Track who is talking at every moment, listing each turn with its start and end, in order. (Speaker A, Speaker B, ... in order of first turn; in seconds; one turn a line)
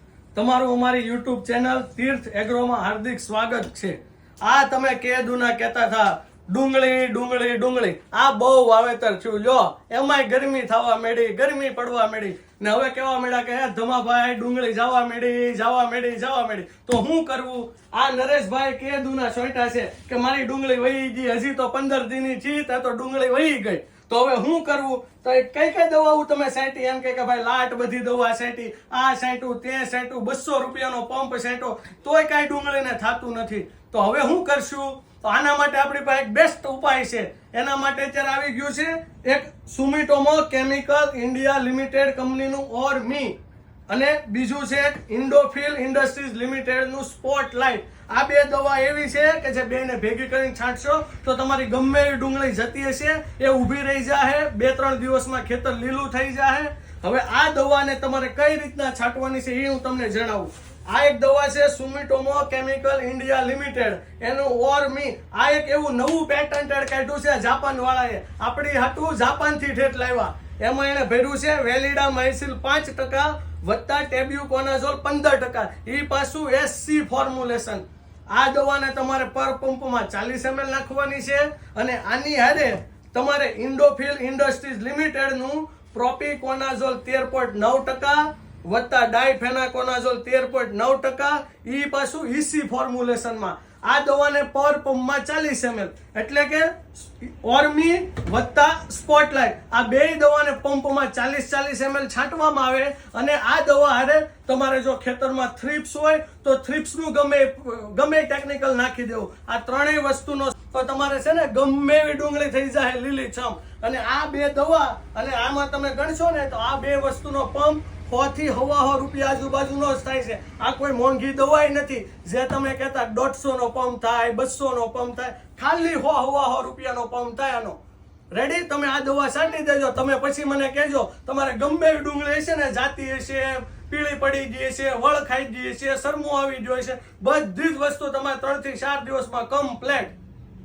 Speaker A: 0.3-43.4
Speaker A: 43.9-127.8
Speaker A: 128.3-140.1